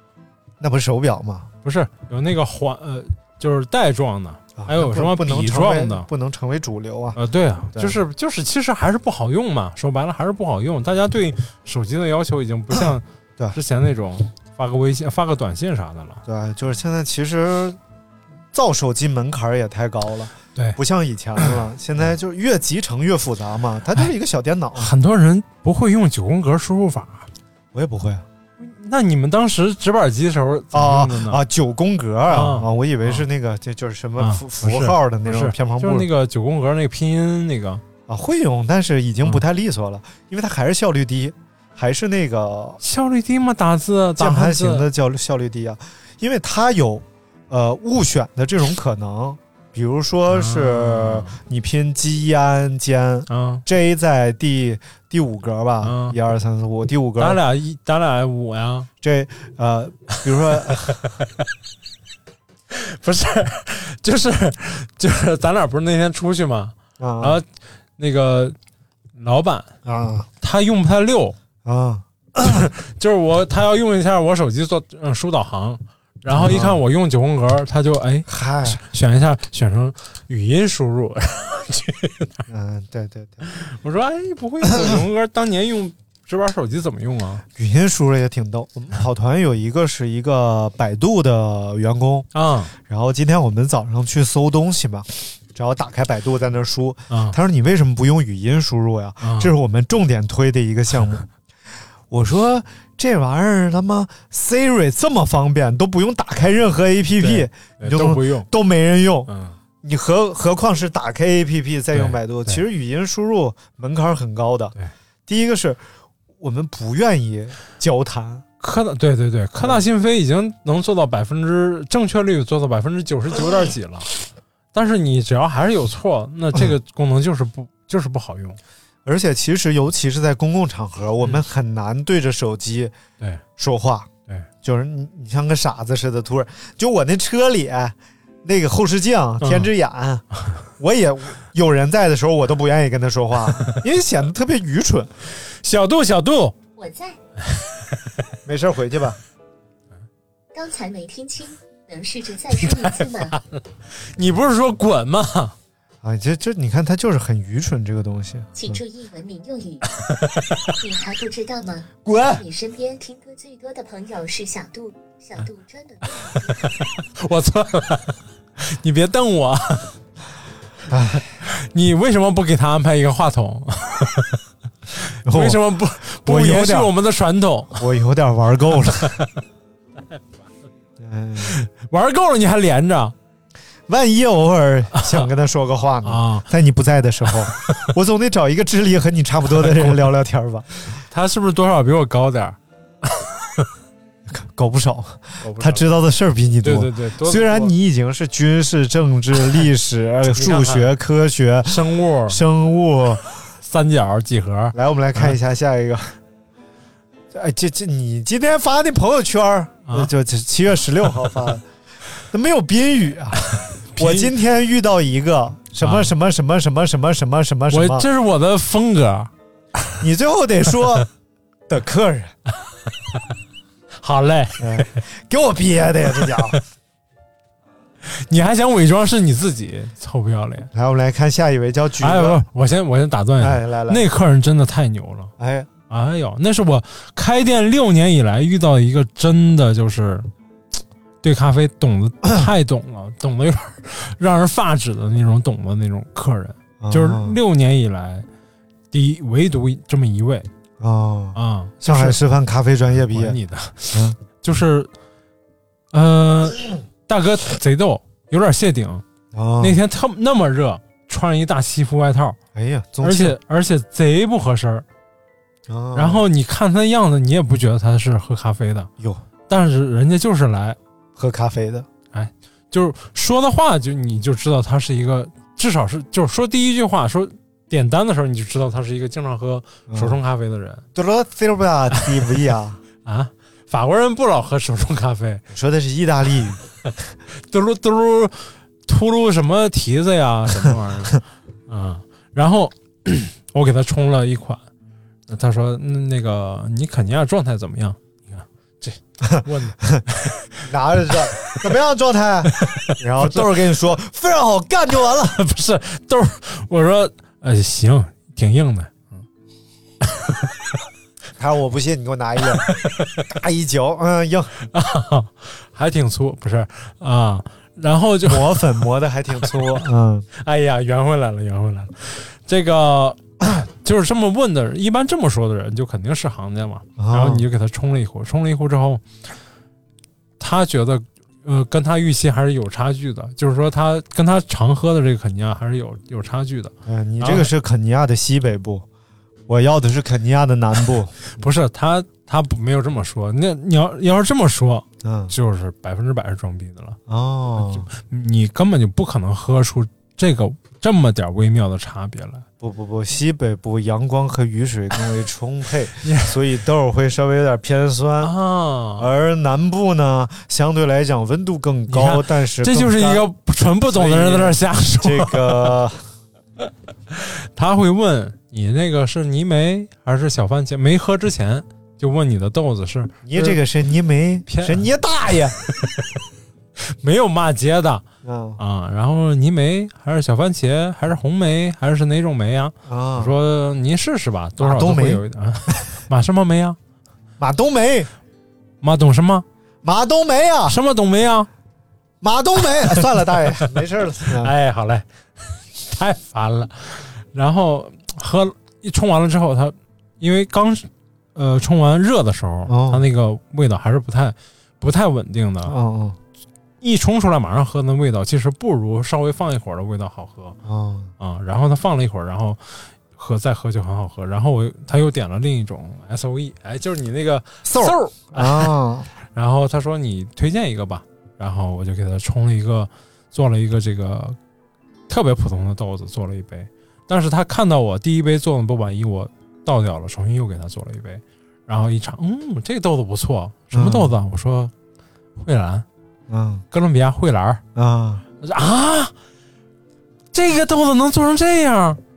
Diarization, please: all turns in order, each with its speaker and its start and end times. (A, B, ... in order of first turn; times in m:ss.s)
0:00.6-0:01.5 A
0:01.6-0:06.1 B
0:04.6-0:07.2 A
0:07.2-0:16.2 B
0:16.2-0:17.8 A
0:18.5-0:24.9 A
0:24.8-0:27.3 B
0:27.7-0:28.2 A
0:28.6-0:31.4 B
0:30.7-0:36.1 A
0:32.3-0:33.2 B
0:34.2-0:37.8 B
0:38.1-0:42.8 A
0:42.8-0:44.9 B
0:44.2-0:57.4 A
0:50.3-0:51.4 B
0:53.3-0:53.6 B
0:55.8-0:56.2 B
0:57.2-0:58.9 B
0:59.0-1:01.0 A
1:02.7-1:07.5 B
1:07.0-1:07.4 A
1:08.0-1:08.6 B
1:09.2-1:09.7 B
1:09.8-1:10.3 A
1:10.4-1:11.4 B
1:11.6-1:12.6 A
1:12.4-1:22.4 B
1:16.3-1:16.8 A
1:18.3-1:18.8 A
1:22.5-1:23.5 A
1:23.4-1:27.4 B
1:24.6-1:25.0 A
1:27.5-1:32.3 A
1:32.3-1:32.7 B
1:32.8-1:41.2 A
1:37.1-1:37.4 B
1:39.2-1:39.5 B
1:42.1-1:49.3 A
1:47.2-1:48.5 B
1:49.3-1:49.6 B
1:49.8-1:54.7 A
1:51.9-1:52.6 B
1:55.3-1:55.8 A
1:56.4-1:58.4 A
1:58.6-2:04.2 B
2:04.7-2:08.6 B
2:09.0-2:12.9 A
2:13.6-2:14.1 A
2:14.6-2:20.2 A
2:19.4-2:19.7 B
2:20.8-2:25.1 A
2:25.4-2:26.6 B
2:26.8-2:27.2 C
2:28.4-2:29.2 A
2:30.5-2:33.4 C
2:32.6-2:35.5 B
2:36.0-2:38.8 A
2:38.5-2:39.9 C
2:40.1-2:40.5 B
2:40.8-2:46.8 C
2:46.6-2:49.9 B
2:50.9-2:51.2 A
2:51.4-2:54.4 B
2:55.0-2:57.8 B
2:55.2-2:55.6 A
2:56.2-2:56.9 A
2:57.8-2:59.2 A
3:01.0-3:01.5 A
3:01.4-3:03.1 B
3:03.9-3:10.7 A
3:04.9-3:05.3 B
3:06.0-3:06.5 B
3:09.6-3:10.1 B
3:10.9-3:12.6 B
3:13.1-3:13.7 B
3:14.2-3:23.3 A
3:15.4-3:15.8 B
3:16.6-3:17.7 B
3:20.3-3:20.9 B
3:21.6-3:22.4 B
3:23.6-3:25.4 B
3:24.7-3:26.1 A
3:27.3-3:31.6 A
3:32.3-3:38.1 A
3:33.5-3:34.3 B
3:35.8-3:36.1 B
3:37.7-3:39.3 B
3:40.0-3:41.1 A
3:41.7-3:42.3 A
3:44.0-3:45.0 B
3:44.6-3:46.6 A
3:48.0-3:50.7 B
3:50.7-3:52.4 A
3:52.0-3:55.3 B
3:53.4-3:54.1 A
3:55.4-3:55.7 A
3:55.9-4:00.3 B
4:01.2-4:08.3 B
4:06.8-4:07.4 A
4:08.9-4:10.5 B
4:10.8-4:13.4 A
4:11.3-4:12.2 B
4:13.1-4:14.9 B
4:15.9-4:19.0 B
4:19.3-4:19.8 A
4:19.6-4:22.4 B
4:22.5-4:23.4 A
4:23.0-4:24.8 B
4:25.7-4:26.2 A
4:25.9-4:28.9 B
4:29.5-4:30.8 B
4:31.2-4:31.9 A
4:32.1-4:40.8 B
4:39.9-4:40.2 A
4:40.9-4:42.8 A
4:43.0-4:45.4 B
4:45.5-4:46.6 A
4:47.4-4:54.6 B
4:55.3-5:00.5 B
4:59.3-5:00.0 A
5:00.6-5:05.4 A
5:02.6-5:03.5 B
5:05.2-5:09.2 B
5:10.0-5:10.5 B
5:11.4-5:12.7 A
5:12.7-5:13.2 B
5:13.3-5:14.5 A
5:14.6-5:18.6 B
5:18.2-5:20.2 A
5:19.4-5:19.8 B
5:20.4-5:29.0 B
5:27.0-5:27.4 A
5:30.4-5:37.5 B
5:36.8-5:38.8 A
5:39.5-5:41.2 A
5:41.3-5:47.0 B
5:45.0-5:45.3 A
5:47.1-5:47.9 A
5:47.6-5:52.4 B
5:52.6-5:58.3 A
5:56.0-5:56.4 B
5:58.2-5:59.1 B
5:59.0-6:03.3 A
6:01.9-6:05.8 B
6:03.9-6:06.0 A
6:07.1-6:13.6 B
6:13.2-6:15.6 A
6:14.5-6:14.8 B
6:16.8-6:18.0 B
6:18.2-6:18.6 A
6:18.6-6:26.8 B
6:22.8-6:23.3 A
6:24.6-6:25.2 A
6:27.4-6:28.1 A
6:28.8-6:29.4 B
6:29.8-6:30.8 A
6:30.7-6:31.5 B
6:32.2-6:34.5 A
6:34.2-6:45.8 B
6:42.7-6:43.0 A
6:45.6-6:46.2 A
6:46.8-6:50.6 B
6:50.6-6:51.1 A
6:51.2-6:58.7 B
6:57.6-6:59.1 A
6:59.2-7:04.4 B
7:05.1-7:14.7 B
7:13.7-7:14.1 A
7:15.4-7:15.8 B
7:16.3-7:16.6 A
7:16.7-7:17.6 B
7:17.7-7:18.2 A
7:18.4-7:19.1 B
7:20.3-7:22.0 B